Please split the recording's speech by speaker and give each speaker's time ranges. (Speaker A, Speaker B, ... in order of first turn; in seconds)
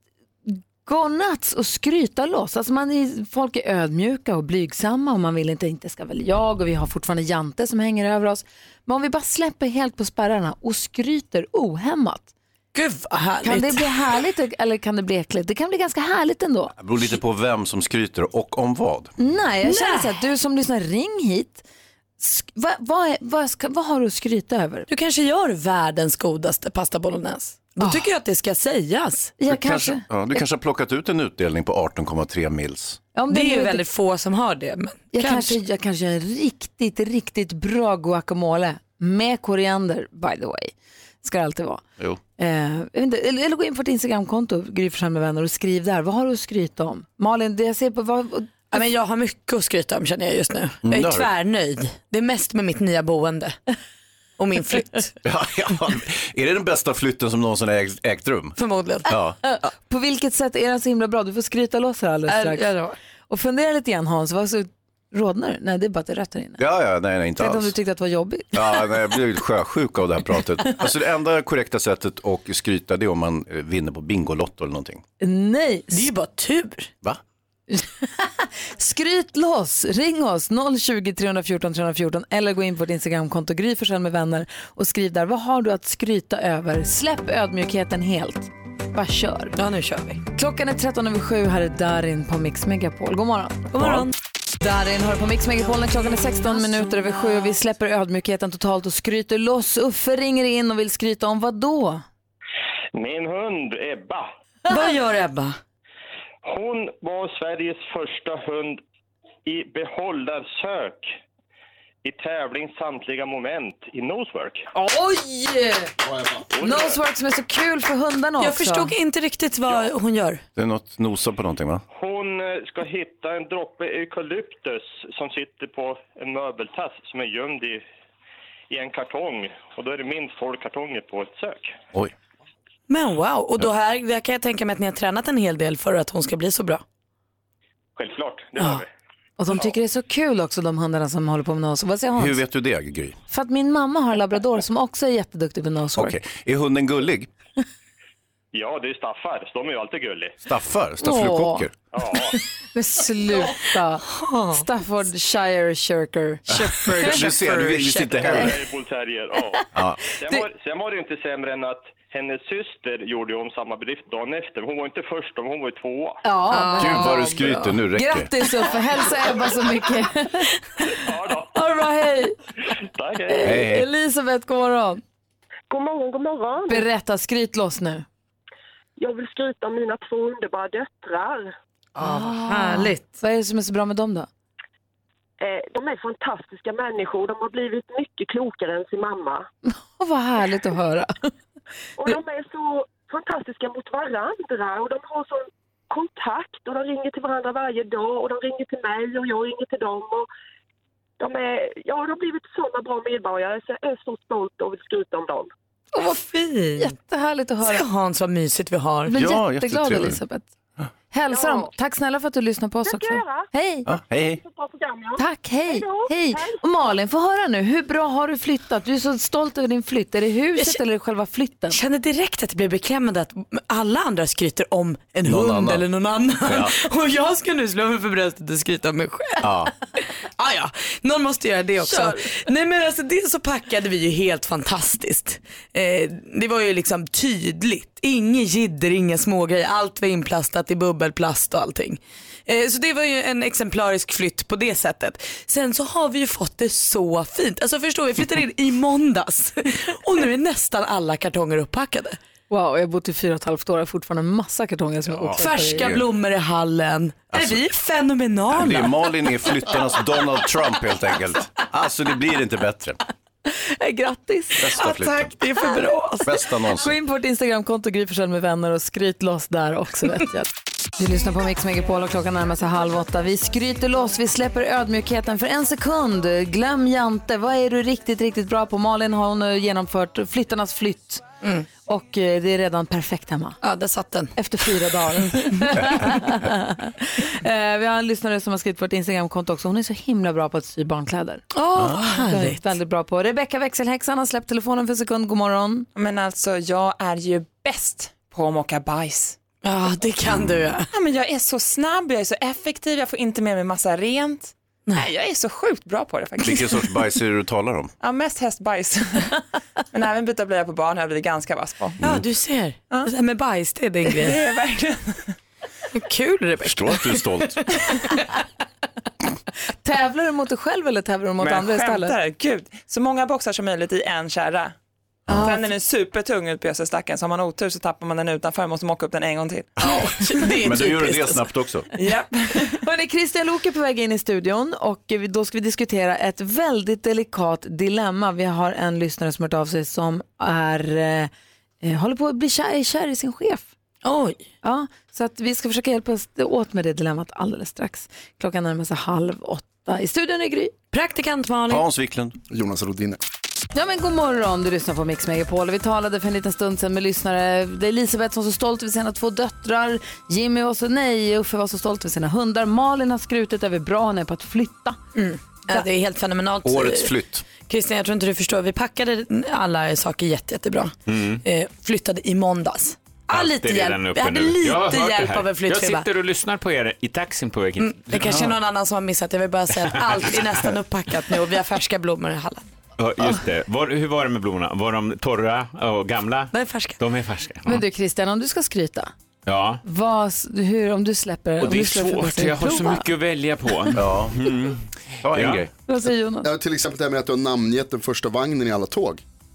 Speaker A: 0.5-12.3, 13.4-16.7, 19.2-21.6, 22.2-24.9, 27.8-28.0, 29.4-30.0, 33.1-33.8, 35.1-41.8, 42.4-48.8, 59.7-62.8, 63.3-66.6, 67.4-69.1, 75.2-76.0, 77.7-89.5, 90.3-93.7, 94.6-102.0, 114.7-115.9, 116.6-118.9, 139.4-142.4, 143.3-146.2, 151.0-151.7, 152.7-157.3, 166.2-170.5, 171.5-172.3, 173.3-175.0, 176.7-178.1, 182.0-184.3, 189.7-191.3, 206.8-207.8, 209.1-210.5, 211.1-213.9, 215.2-221.8, 252.5-255.9, 263.5-264.8, 266.7-281.2, 281.9-283.6, 284.4-291.4, 291.9-295.9, 319.8-322.2, 325.3-325.7, 332.6-341.3, 341.8-343.7, 344.6-350.7, 353.7-365.0, 387.6-389.1, 389.8-393.1, 395.9-396.5
Speaker B: 12.7-13.9, 19.6-20.1, 24.9-29.3, 33.3-35.6, 48.7-53.6, 54.4-55.1, 58.6-59.1, 62.3-63.0, 75.9-76.9, 89.5-90.2, 93.7-94.1, 104.7-105.6, 118.4-120.4, 132.9-136.8, 154.1-154.6, 156.5-158.4, 166.5-167.7, 182.0-183.0, 206.0-206.9, 207.6-209.1, 221.7-229.5, 230.4-252.2, 255.4-258.9, 264.7-266.4, 283.6-284.4, 285.2-285.6, 291.5-292.7, 299.6-300.9, 312.0-314.4, 315.9-318.1, 329.8-331.4, 344.0-344.4, 350.9-351.8, 365.1-367.1, 367.6-376.1, 377.8-382.6, 386.5-387.0
Speaker C: 16.8-19.1, 29.5-33.0, 50.8-51.3, 55.2-58.5, 59.1-59.4, 66.6-67.7, 68.5-75.0, 120.5-121.8, 142.2-143.2, 145.9-147.3, 150.4-151.7, 156.5-158.5, 159.7-160.0, 166.8-168.3, 173.4-173.9, 209.2-210.2, 213.8-214.4, 225.2-225.8, 226.4-226.7, 229.4-229.7, 255.1-256.0, 257.3-257.6, 258.5-263.0, 264.6-265.3, 266.2-266.9, 306.4-307.9, 316.6-317.6, 330.6-331.9, 351.7-352.4, 366.6-367.4, 378.2-378.5, 393.9-394.4, 395.2-395.7
Speaker D: 102.9-104.3, 106.4-108.8, 109.5-111.1, 112.0-114.7, 116.5-117.0, 121.9-127.8, 128.7-131.7, 137.9-138.9, 148.5-150.4, 151.9-152.4, 158.3-159.6, 160.2-166.2, 170.9-171.6, 172.8-173.5
Speaker E: 116.0-116.4, 352.5-353.2, 396.4-399.2
Speaker F: 175.7-176.8, 179.0-181.5, 185.4-189.5, 192.0-200.3, 201.2-205.5, 211.3-211.7, 212.8-213.5, 214.4-216.6
Speaker G: 295.9-299.4, 300.9-306.9, 308.0-309.3, 309.9-312.0, 314.1-315.3, 321.4-324.7, 325.4-329.9, 332.0-332.7
Speaker H: 371.1-371.4, 373.3-378.5, 380.1-380.4, 383.0-387.8, 389.4-389.8, 391.6-395.6